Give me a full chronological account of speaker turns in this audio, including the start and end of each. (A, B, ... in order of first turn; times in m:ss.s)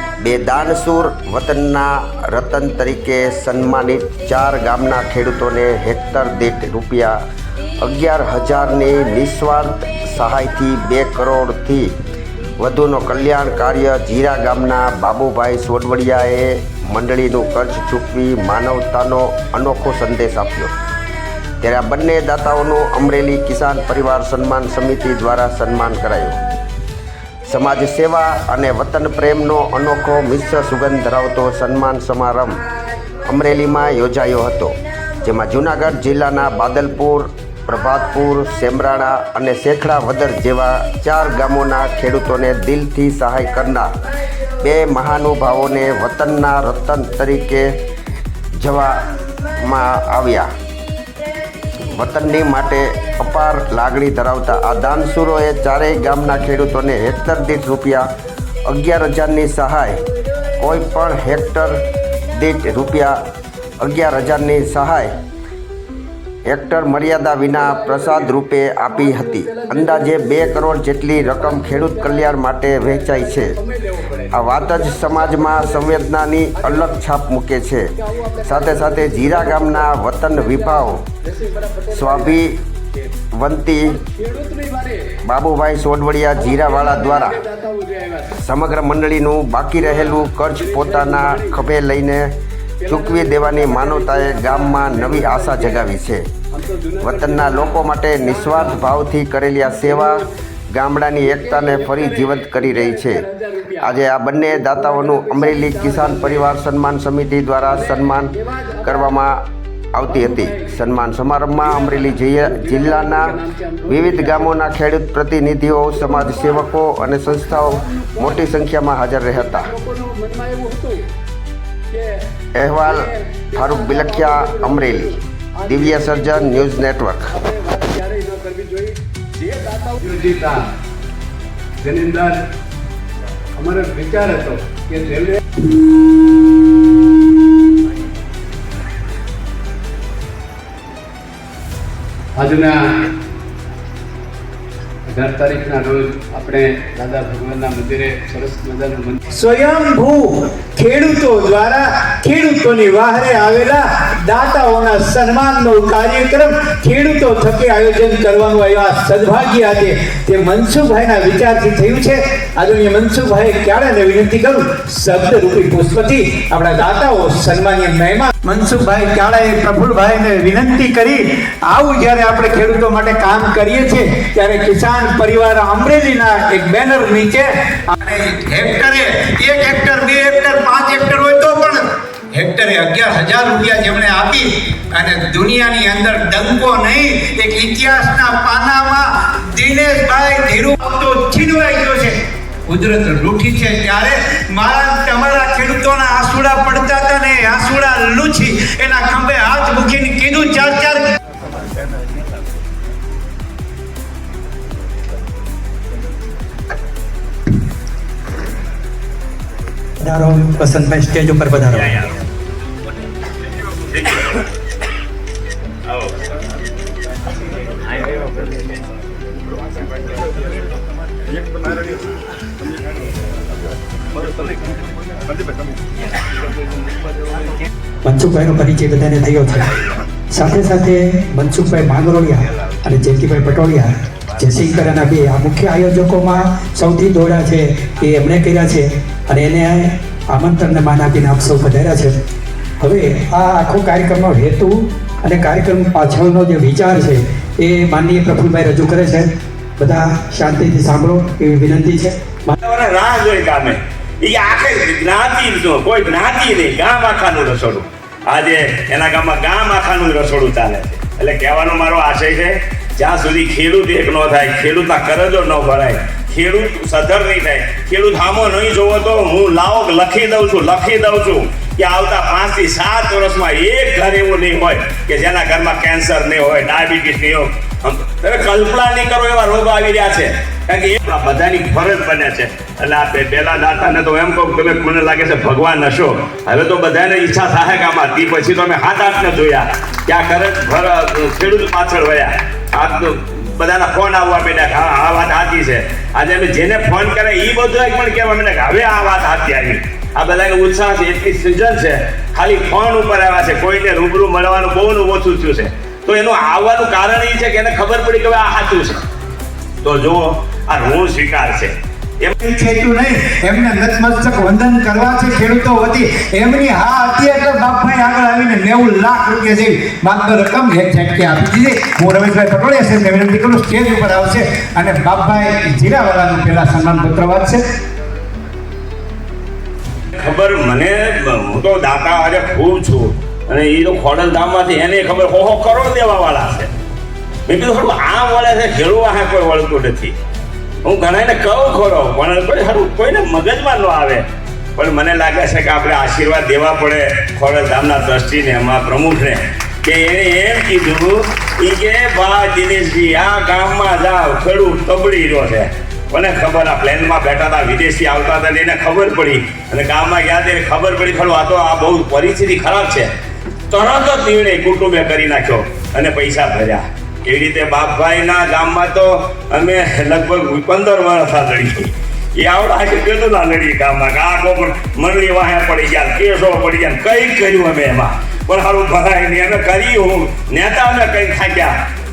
0:00.2-0:07.2 A
0:07.8-0:11.9 A
0:12.6-0:20.7 A
0:21.6-0:26.4 A
0:27.5-0:32.6 A
0:33.2-0:43.9 A
0:44.6-0:47.8 A
0:48.6-0:50.5 A
0:51.9-0:58.0 A
0:58.6-1:00.0 A
1:00.6-1:03.2 A
1:03.8-1:05.1 A
1:06.4-1:13.6 A
1:07.5-1:08.3 B
1:08.9-1:17.0 B
1:14.3-1:17.9 A
1:18.0-1:22.4 B
1:18.4-1:21.0 A
1:21.9-1:22.6 A
1:23.3-1:24.0 A
1:23.9-1:25.2 B
1:25.2-1:27.4 A
1:26.4-1:28.4 B
1:28.4-1:32.3 A
1:29.8-1:31.6 B
1:32.8-1:35.9 B
1:32.9-1:36.2 A
1:36.5-1:38.9 B
1:37.0-1:43.2 A
1:39.8-1:40.3 B
1:41.2-1:44.0 B
1:43.8-1:48.3 A
1:44.5-1:46.5 B
1:47.7-1:49.2 B
1:48.8-1:49.4 A
1:50.0-1:53.3 A
1:50.1-1:50.7 B
1:51.6-1:54.6 B
1:53.9-1:59.7 A
1:56.0-1:56.7 B
1:57.3-1:58.5 B
1:59.3-2:01.1 B
2:01.9-2:06.7 B
2:02.6-2:05.1 A
2:05.6-2:07.3 A
2:07.3-2:10.7 B
2:11.8-2:12.4 B
2:13.6-2:15.4 B
2:22.4-2:22.8 B
2:25.1-2:29.2 B
2:29.3-3:21.0 C
3:30.0-3:31.9 D
3:31.7-3:32.1 E
3:33.9-3:34.4 E
3:48.0-3:49.7 D
3:50.3-4:02.2 D
4:02.8-4:09.3 D
4:09.8-4:12.6 D
4:12.6-5:09.0 E
5:09.8-5:12.3 E
5:12.4-5:27.6 C
5:30.2-5:36.7 E
5:37.5-5:40.1 E
5:40.8-5:44.2 E
5:44.8-6:03.1 E
6:03.7-6:21.7 E